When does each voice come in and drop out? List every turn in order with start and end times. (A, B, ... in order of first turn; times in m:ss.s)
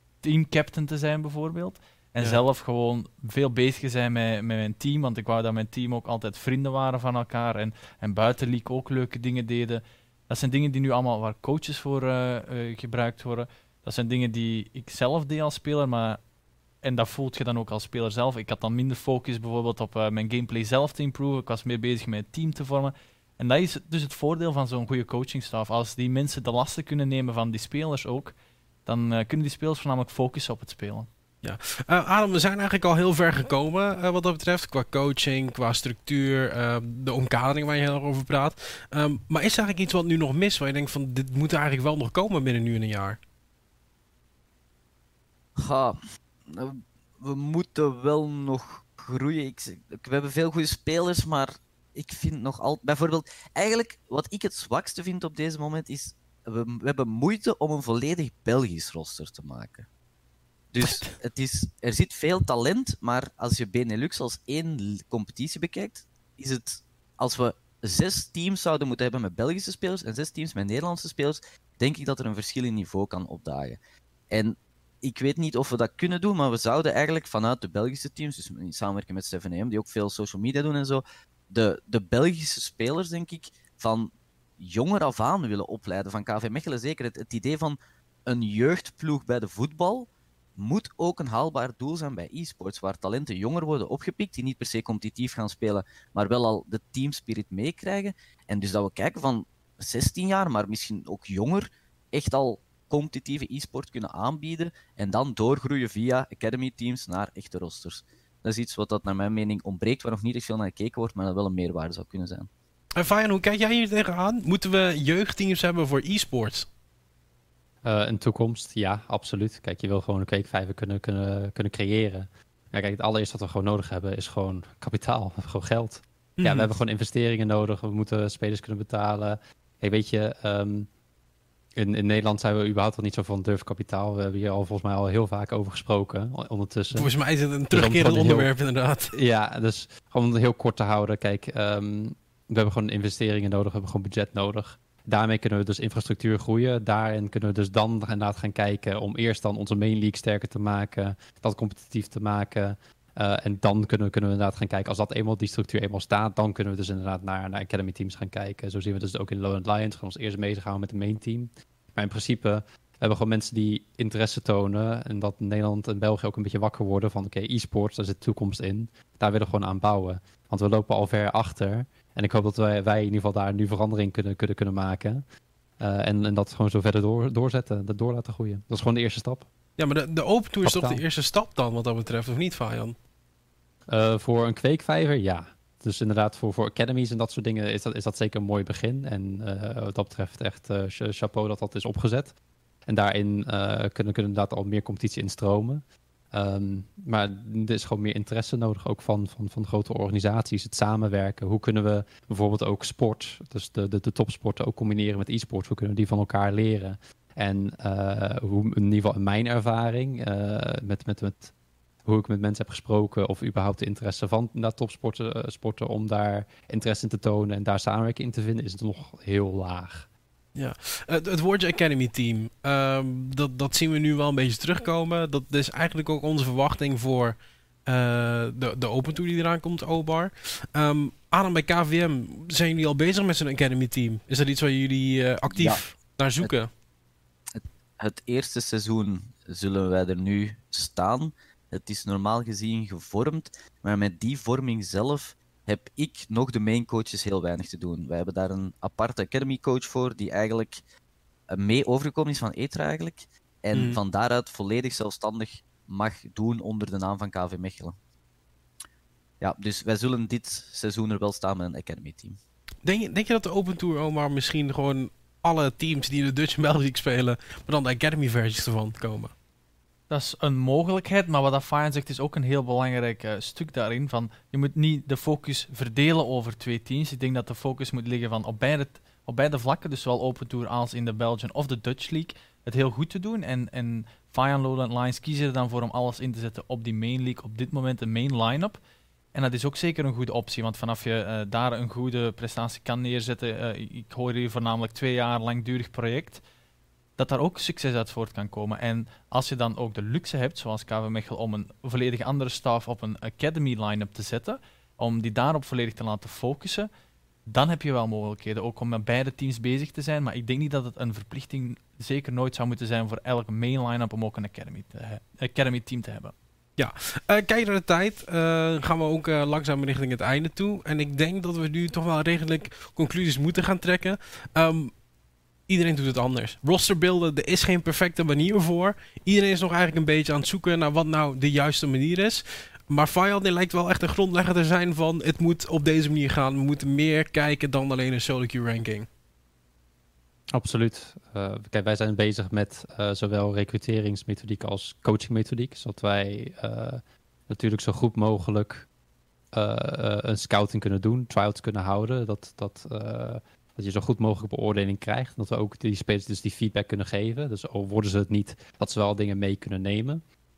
0:00.2-0:16.2 A
0:16.8-0:28.4 A
0:28.9-0:31.1 A
0:31.4-0:43.2 B
0:45.6-0:46.0 C
0:46.5-0:59.9 C
1:00.7-1:13.8 C
1:00.8-1:01.1 B
1:14.3-1:52.5 C
1:53.0-1:56.7 B
1:57.8-2:10.9 D
2:06.4-2:06.7 B
2:11.8-2:17.1 D
2:16.9-2:19.2 B
2:17.7-2:18.5 D
2:19.1-2:55.2 D
2:55.8-2:59.5 D
2:59.8-3:03.0 B
3:00.6-3:01.0 D
3:03.9-3:12.4 D
3:12.9-3:31.5 D
3:32.0-3:40.1 D
3:40.6-3:56.7 B
3:55.5-3:55.8 C
3:57.5-4:10.8 C
4:11.5-4:18.0 C
4:13.7-4:14.0 B
4:19.4-4:22.4 C
4:22.8-4:29.3 B
4:30.1-4:48.8 A
4:49.3-4:56.4 A
4:57.2-5:06.9 A
5:07.5-5:16.3 A
5:16.8-5:24.9 B
5:25.7-5:39.1 B
5:40.5-5:48.9 D
5:49.5-6:00.2 D